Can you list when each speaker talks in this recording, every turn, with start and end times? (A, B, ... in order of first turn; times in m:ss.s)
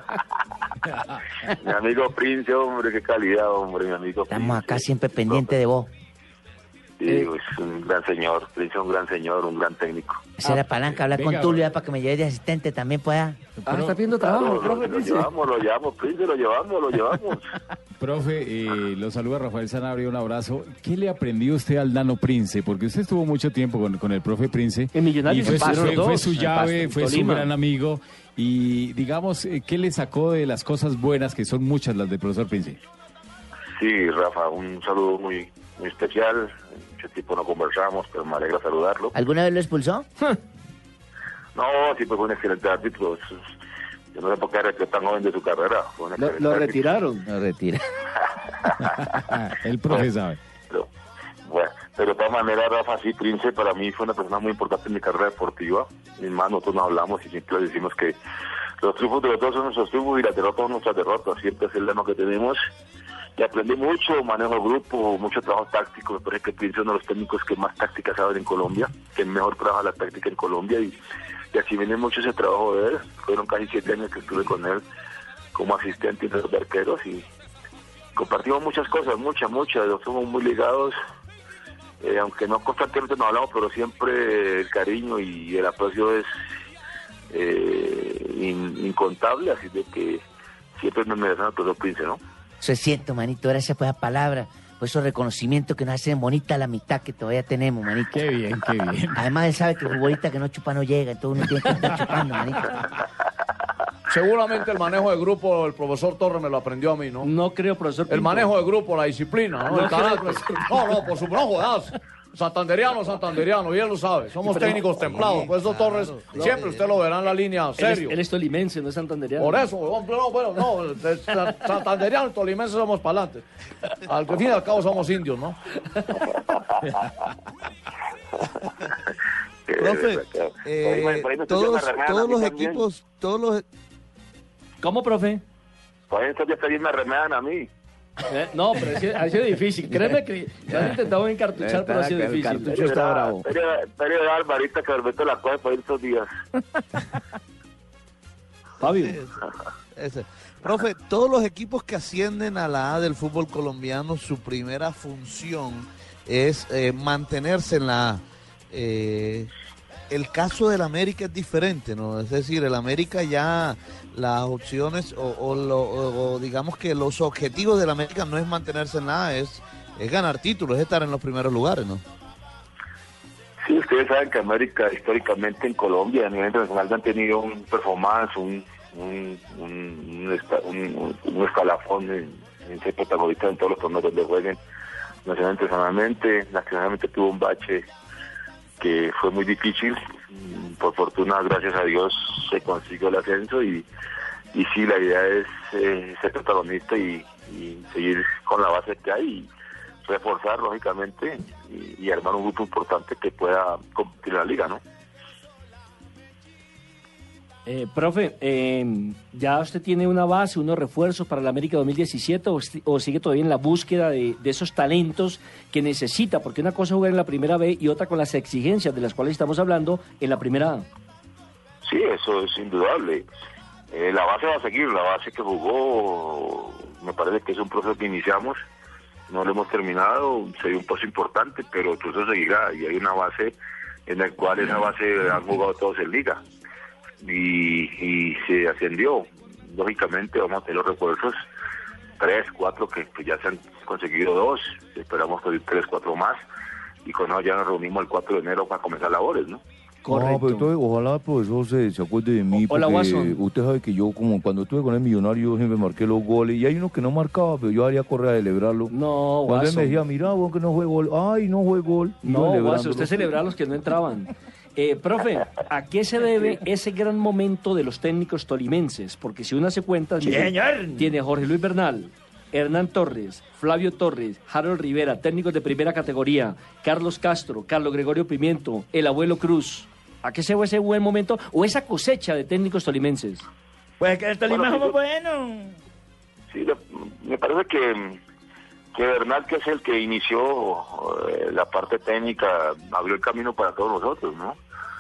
0:01.5-0:05.6 A
0:04.3-0:05.9 B
0:07.0-0:10.3 A
0:10.4-0:13.5 B
0:11.1-0:11.7 C
0:13.6-0:14.0 C
0:13.6-0:15.3 D
0:14.2-0:17.5 A
0:18.0-0:32.8 C
0:24.9-0:27.5 D
0:33.8-0:39.1 A
0:39.2-0:40.1 B
0:41.6-0:43.2 A
0:44.1-0:46.8 A
0:46.2-0:47.3 D
0:47.3-0:47.8 B
0:48.8-0:50.4 C
0:51.4-0:58.2 A
0:58.8-1:02.6 A
1:03.4-1:10.9 A
1:11.5-1:14.8 A
1:15.5-1:17.3 A
1:18.2-1:21.0 A
1:22.0-1:26.3 A
1:27.3-1:30.2 A
1:30.8-1:32.2 A
1:32.6-1:38.2 B
1:38.1-1:39.2 C
1:39.2-1:42.8 B
1:44.1-1:47.3 E
1:47.2-1:48.5 D
1:48.1-1:58.2 E
1:49.7-1:51.0 D
1:54.5-1:54.8 D
1:54.7-1:57.0 F
1:57.8-1:59.7 D
1:59.4-2:03.4 E
2:04.1-2:05.6 E
2:09.7-2:12.8 A
2:09.8-2:13.6 F
2:14.8-2:15.4 D
2:16.1-2:17.7 A
2:18.3-2:22.8 D
2:20.7-2:21.0 B
2:21.6-2:23.4 B
2:22.6-2:26.3 A
2:28.8-2:29.2 D
2:28.9-2:29.3 F
2:30.0-2:39.5 F
2:40.1-2:52.0 F
2:53.7-3:04.6 A
3:05.2-3:07.9 A
3:08.8-3:13.9 A
3:14.5-3:19.5 A
3:20.0-3:24.8 A
3:27.7-3:40.9 D
3:41.8-3:43.3 A
3:43.9-3:48.6 A
3:49.3-3:53.6 A
3:54.1-3:56.4 A
3:57.2-4:01.4 A
4:02.2-4:06.4 A
4:07.0-4:09.6 A
4:10.0-4:10.7 D
4:10.1-4:18.9 G
4:12.6-4:13.4 D
4:18.9-4:20.0 D
4:19.4-4:23.4 G
4:22.2-4:43.5 D
4:44.0-4:45.5 E
4:44.5-4:44.9 A
4:46.5-4:48.2 A
4:48.9-4:54.6 A